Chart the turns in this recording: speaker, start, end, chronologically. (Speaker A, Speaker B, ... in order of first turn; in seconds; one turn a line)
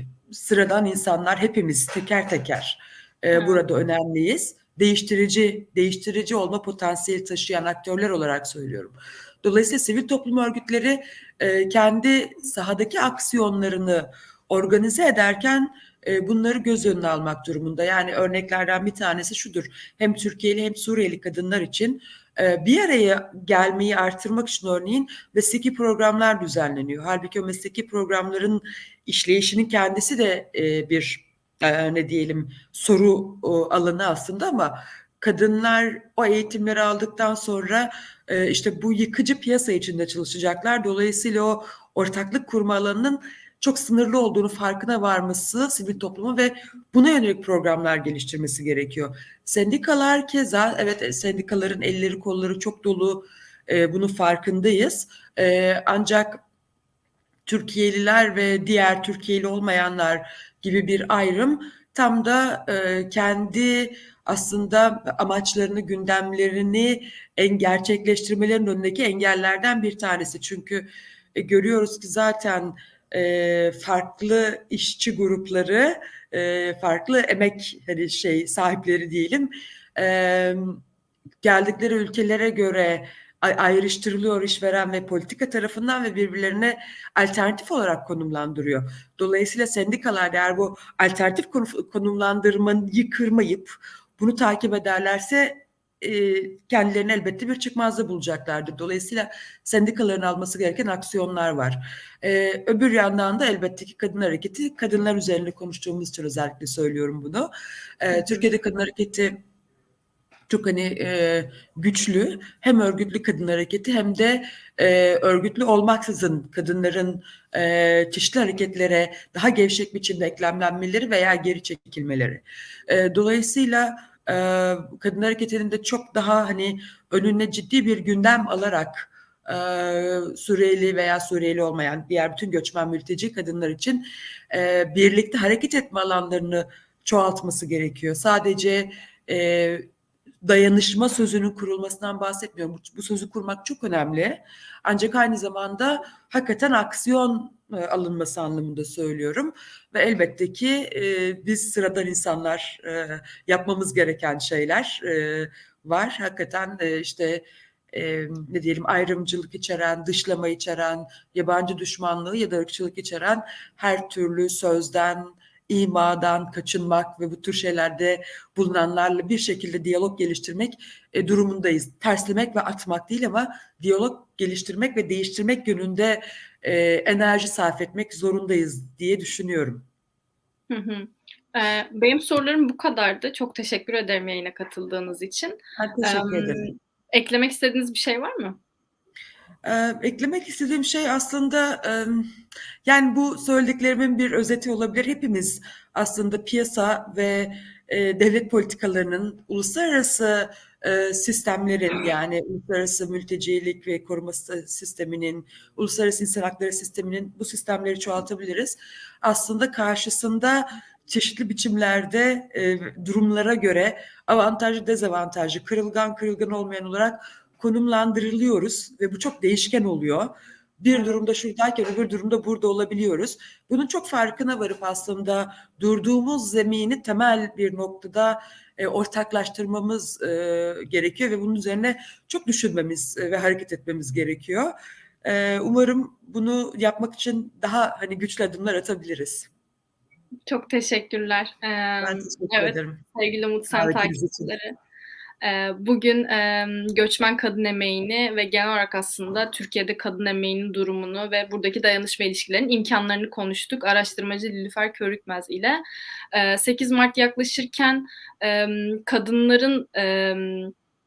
Speaker A: 0.3-56.4
Speaker B: 3.3-3.6
Speaker A: 57.5-80.8
Speaker A: 81.4-107.5
Speaker A: 108.0-109.4
Speaker B: 108.1-108.5
Speaker A: 110.5-139.9
Speaker A: 140.4-179.8
Speaker B: 180.7-188.6
Speaker A: 185.8-186.6
Speaker A: 189.6-192.2
Speaker A: 192.8-234.7
Speaker A: 235.2-239.5
Speaker B: 240.5-244.7
Speaker A: 242.0-243.0
Speaker A: 243.7-244.5
Speaker B: 245.4-255.8
Speaker B: 256.3-260.7